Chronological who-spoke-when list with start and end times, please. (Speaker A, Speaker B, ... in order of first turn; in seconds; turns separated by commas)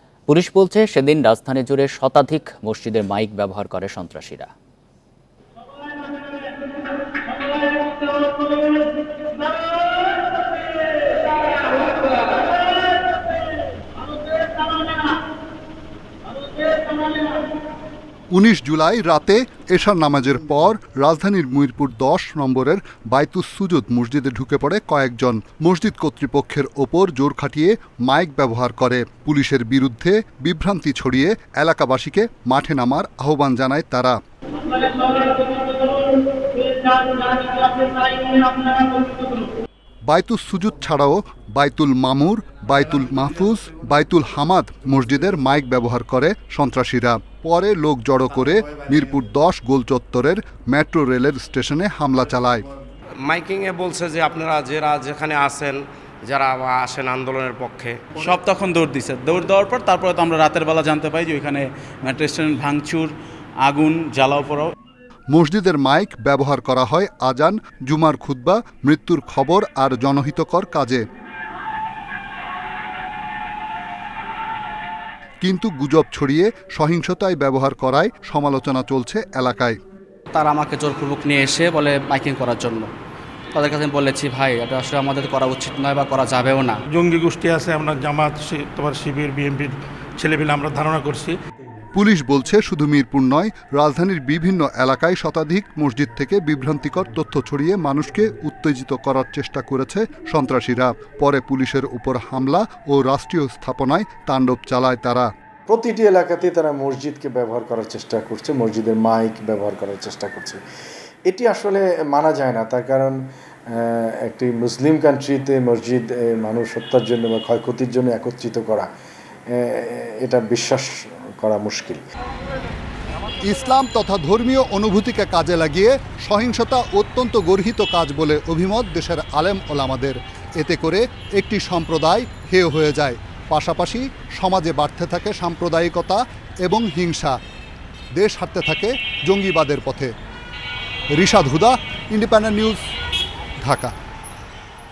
Speaker A: 0.3-4.5, Speaker B: 18.3-34.2, Speaker B: 40.1-52.6, Speaker C: 53.2-58.0, Speaker D: 58.1-63.1, Speaker D: 63.6-64.7, Speaker B: 65.3-71.0, Speaker B: 75.4-79.8, Speaker E: 80.3-82.9, Speaker E: 83.5-86.8, Speaker F: 86.9-91.4, Speaker B: 92.0-105.3, Speaker G: 105.7-110.6, Speaker G: 111.3-118.9, Speaker G: 119.5-122.0, Speaker B: 123.4-137.4, Speaker B: 138.2-140.1, Speaker B: 141.2-142.8, Speaker B: 143.6-143.9